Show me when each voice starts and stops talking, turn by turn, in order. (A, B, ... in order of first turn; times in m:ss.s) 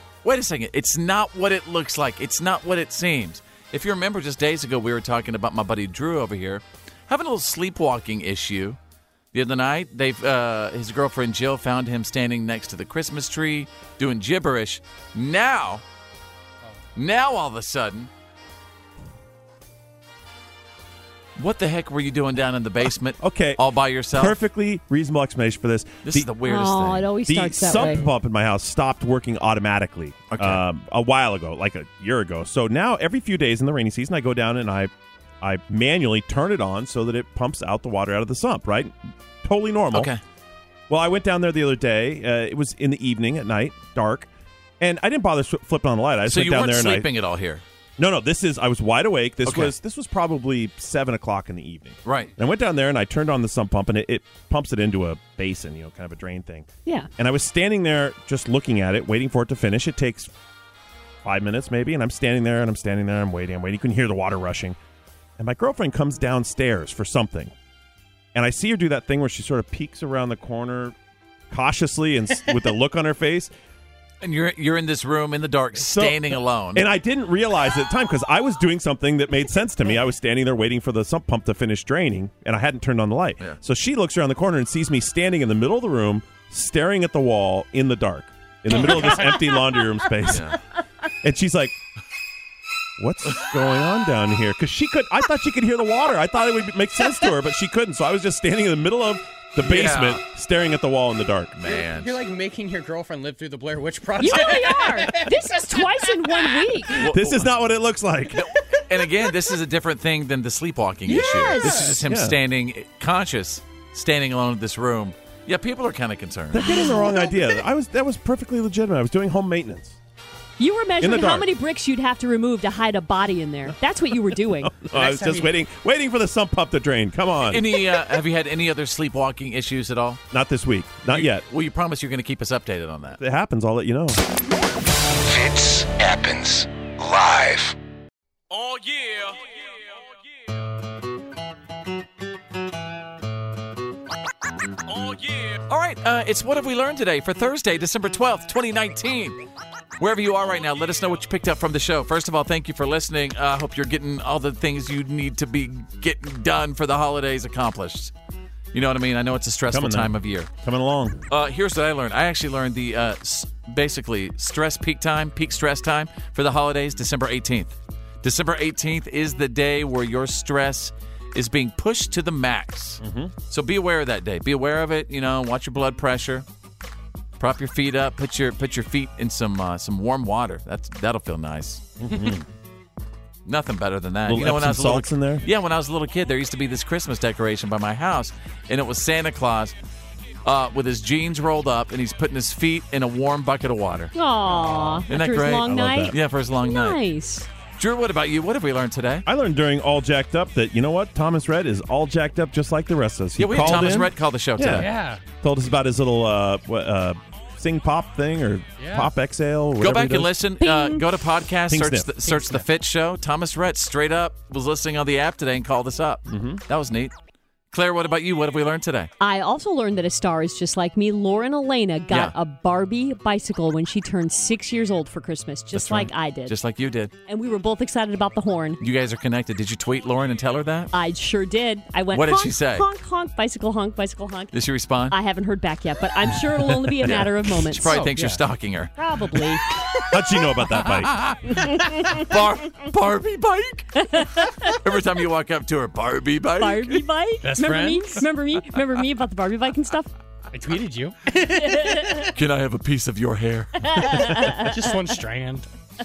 0:00.2-0:08.8 A
0:09.3-0:15.8 A
0:17.0-0:18.1 A
0:21.4-0:24.4 A
0:23.2-0:23.6 B
0:24.1-0:26.3 B
0:26.0-0:27.1 A
0:26.4-0:28.1 C
0:27.3-0:40.1 B
0:30.3-0:30.6 A
0:39.9-0:40.2 A
0:40.9-0:44.3 B
0:44.8-0:47.1 B
0:46.3-0:47.6 A
0:48.0-1:00.3 B
0:49.4-0:49.7 A
0:52.0-0:52.3 A
1:01.2-1:04.8 B
1:05.4-1:07.5 B
1:08.3-1:11.0 B
1:11.5-1:13.5 B
1:14.2-1:16.9 A
1:15.8-1:30.6 B
1:28.7-1:30.0 C
1:30.3-1:30.6 A
1:31.2-1:31.8 B
1:33.0-1:41.6 B
1:39.6-1:40.2 A
1:41.6-1:42.2 A
1:41.6-1:46.7 D
1:44.2-1:47.0 C
1:47.0-1:47.5 A
1:47.1-1:48.5 B
1:48.4-1:56.7 A
1:51.1-1:51.9 C
1:51.6-1:52.0 D
1:52.0-1:52.4 B
1:56.5-2:00.0 B
1:56.6-1:57.4 C
2:00.6-2:04.7 C
2:01.0-2:01.5 B
2:04.6-2:07.8 B
2:04.9-2:05.5 D
2:07.5-2:10.2 A
2:10.3-2:11.4 B
2:11.1-2:13.2 A
2:13.2-2:14.2 B
2:15.4-2:17.7 E
2:18.5-2:19.4 A
2:24.9-2:29.4 A
2:30.0-2:38.1 A
2:38.7-2:40.5 A
2:39.7-2:41.2 B
2:41.3-2:56.5 A
2:53.0-2:53.4 B
2:57.4-3:01.9 A
3:02.0-3:02.4 B
3:03.5-3:09.8 A
3:04.3-3:05.4 B
3:10.4-3:14.2 A
3:14.2-3:17.5 C
3:15.1-3:17.0 A
3:15.6-3:16.2 B
3:17.8-3:19.3 A
3:19.3-3:24.9 B
3:23.4-3:24.9 A
3:24.8-3:25.2 D
3:25.4-3:30.3 B
3:28.8-3:29.1 D
3:29.8-3:37.1 A
3:30.6-3:31.0 C
3:31.7-3:32.1 B
3:32.2-3:32.6 D
3:36.3-3:36.6 B
3:37.7-3:39.1 A
3:39.2-3:46.6 C
3:45.7-3:47.1 A
3:47.3-3:48.8 C
3:48.8-3:50.9 A
3:50.9-3:54.5 C
3:52.1-3:52.8 A
3:54.5-3:55.2 A
3:55.1-3:58.1 C
3:57.0-3:58.9 A
3:57.9-3:58.4 D
3:59.0-3:59.6 C
4:00.1-4:01.2 B
4:01.5-4:02.2 C
4:01.9-4:07.0 A
4:04.0-4:04.8 C
4:06.6-4:10.1 C
4:07.4-4:08.3 D
4:10.5-4:12.3 D
4:11.6-4:12.3 C
4:12.3-4:14.3 A
4:13.8-4:14.7 C
4:14.3-4:15.7 D